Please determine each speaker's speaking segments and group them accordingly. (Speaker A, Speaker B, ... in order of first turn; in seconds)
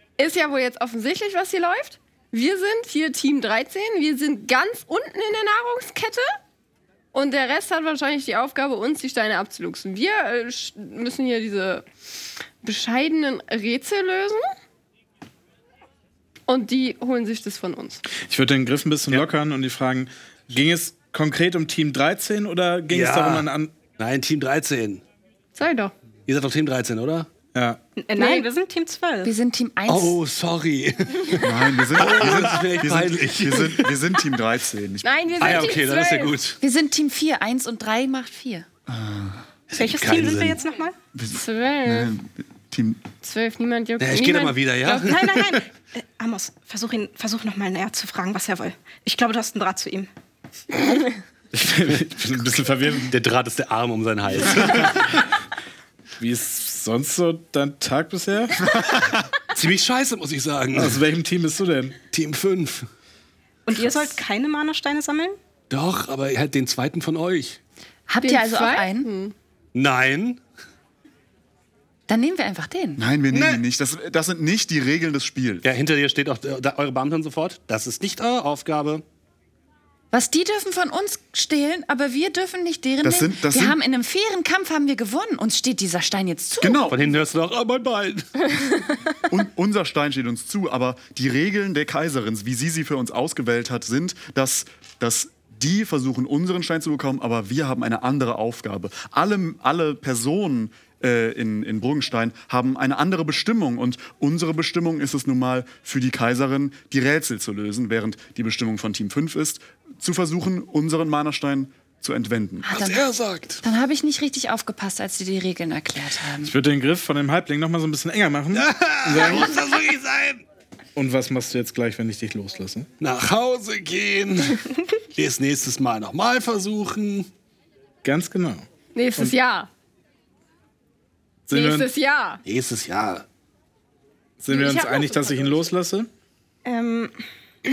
Speaker A: 0.2-6.3, 7.1-11.8, 12.6-14.5, 16.5-18.0, 25.6-25.9, 28.2-28.5, 35.0-36.4, 41.3-42.1, 43.2-45.1, 68.2-69.3, 128.9-129.7, 131.5-132.4, 134.5-135.7
Speaker B: 18.2-23.7, 27.5-27.8, 51.5-53.1, 54.6-54.9, 56.2-58.9, 60.8-62.0, 116.4-119.5, 121.0-122.9, 128.0-128.6, 131.5-131.9, 134.4-136.1
Speaker C: 22.9-25.0, 26.3-27.3, 29.9-34.0, 35.4-36.6, 39.7-40.6, 44.0-45.6, 52.9-55.2, 59.5-61.0, 62.1-62.9, 65.7-67.6, 69.8-70.4, 73.3-73.6, 75.6-79.0, 86.9-88.7, 112.7-113.6, 118.5-120.4, 123.0-127.3, 132.4-133.3
Speaker D: 28.0-29.4, 39.7-41.0, 45.0-50.1, 63.7-65.4, 136.7-137.2
Speaker E: 29.2-30.2, 36.6-38.7, 68.1-69.1, 72.1-73.0, 80.1-86.9, 112.7-113.1, 113.6-116.5
Speaker F: 31.4-35.8, 38.9-39.5, 41.1-43.1, 73.0-75.7, 83.0-83.8, 86.6-87.0, 89.3-112.7